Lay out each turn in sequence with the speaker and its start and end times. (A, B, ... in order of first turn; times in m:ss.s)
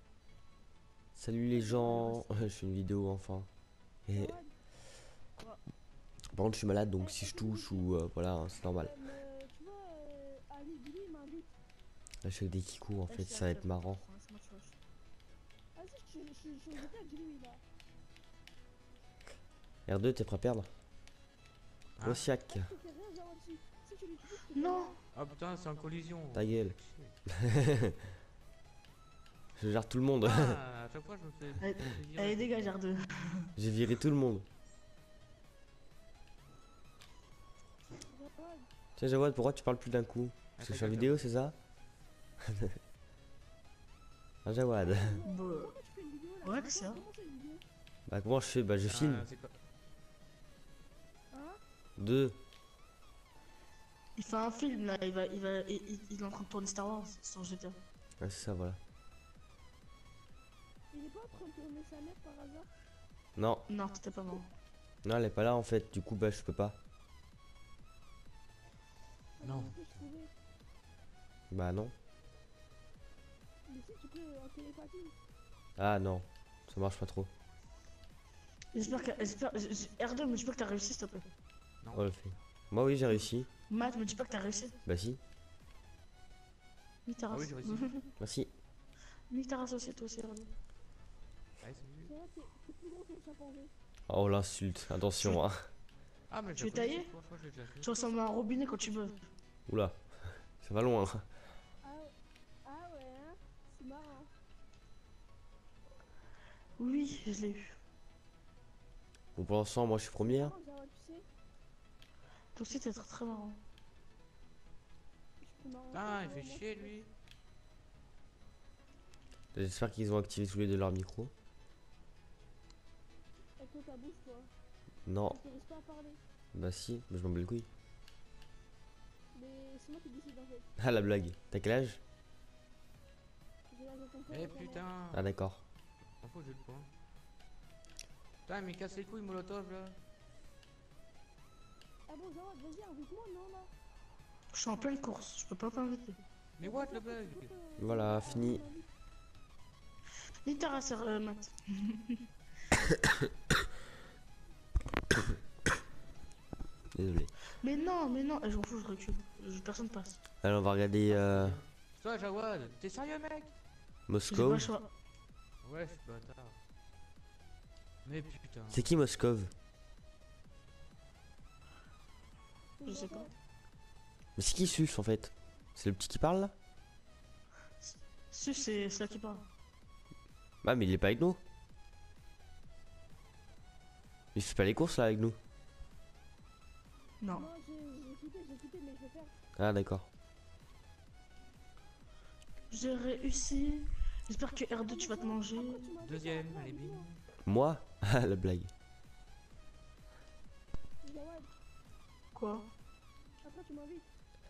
0:01.2-0:03.5 A
0:01.7-0:02.1 B
0:04.1-0:04.4 A
0:04.1-0:04.5 C
0:06.3-0:08.9 A
0:07.0-0:07.9 C
0:08.7-0:11.5 C
0:12.2-0:14.0 A
0:13.1-0:14.7 B
0:15.8-0:17.6 C
0:19.9-0:20.7 A
0:22.0-0:22.3 D
0:22.0-0:22.7 A
0:22.5-0:25.0 C
0:24.4-0:25.0 B
0:25.1-0:27.1 D
0:26.3-0:26.8 A
0:27.3-0:27.9 A
0:29.6-0:30.6 A
0:30.2-0:32.7 D
0:31.6-0:33.5 B
0:33.6-0:34.4 A
0:38.0-0:38.7 C
0:39.0-0:41.6 A
0:40.6-0:41.2 D
0:42.5-0:42.7 A
0:44.4-0:45.2 A
0:44.8-0:47.6 C
0:45.2-0:45.8 B
0:46.4-0:47.0 B
0:48.1-0:49.3 A
0:48.8-0:49.5 D
0:51.3-0:51.6 C
0:52.0-0:52.4 A
0:54.2-0:57.8 B
0:58.2-0:58.8 A
1:00.9-1:02.7 C
1:03.4-1:03.6 A
1:03.7-1:04.5 B
1:05.0-1:06.8 A
1:09.4-1:10.3 C
1:09.4-1:09.8 D
1:11.5-1:11.9 A
1:13.7-1:15.1 C
1:15.8-1:17.3 A
1:18.7-1:21.2 B
1:21.9-1:23.5 A
1:23.7-1:24.8 B
1:24.8-1:25.2 A
1:27.0-1:28.0 B
1:27.3-1:27.9 D
1:28.2-1:28.5 A
1:29.3-1:30.5 B
1:31.6-1:32.1 D
1:32.0-1:33.7 C
1:34.1-1:35.6 A
1:36.3-1:37.9 D
1:36.6-1:37.1 B
1:37.8-1:39.2 B
1:39.7-1:40.0 A
1:40.6-1:41.2 A
1:41.8-1:42.1 C
1:42.6-1:44.3 C
1:46.8-1:47.8 B
1:49.3-1:50.5 A
1:50.2-1:51.3 C
1:52.5-1:53.6 B
1:55.4-1:56.9 C
1:55.9-1:57.1 D
1:59.5-2:01.3 A
2:03.6-2:04.5 C
2:05.0-2:05.4 A
2:05.3-2:06.2 C
2:06.5-2:07.7 A
2:09.3-2:10.7 C
2:10.8-2:12.0 A
2:13.7-2:14.8 C
2:14.3-2:15.2 D
2:15.1-2:15.6 A
2:16.2-2:16.9 D
2:18.4-2:20.0 D
2:22.1-2:23.7 C
2:24.5-2:26.2 B
2:26.6-2:27.5 D
2:26.6-2:28.9 C
2:27.8-2:28.6 A
2:30.4-2:32.2 B
2:36.9-2:37.3 A
2:37.6-2:40.2 B
2:40.4-2:41.6 A
2:41.1-2:43.5 D
2:44.1-2:44.7 A
2:44.3-2:44.8 B
2:45.6-2:46.6 D
2:48.0-2:48.9 D
2:48.7-2:49.5 A
2:52.8-2:53.3 C
2:52.8-2:53.3 B
2:54.4-2:56.5 A
2:57.8-2:59.4 B
3:00.6-3:01.4 A
3:04.3-3:05.4 A
3:07.2-3:07.5 B
3:07.4-3:09.3 C
3:09.6-3:10.1 A
3:12.7-3:15.9 B
3:14.9-3:17.1 C
3:16.0-3:17.2 D
3:17.4-3:18.7 A
3:21.0-3:21.5 C
3:22.3-3:22.7 B
3:23.4-3:24.1 C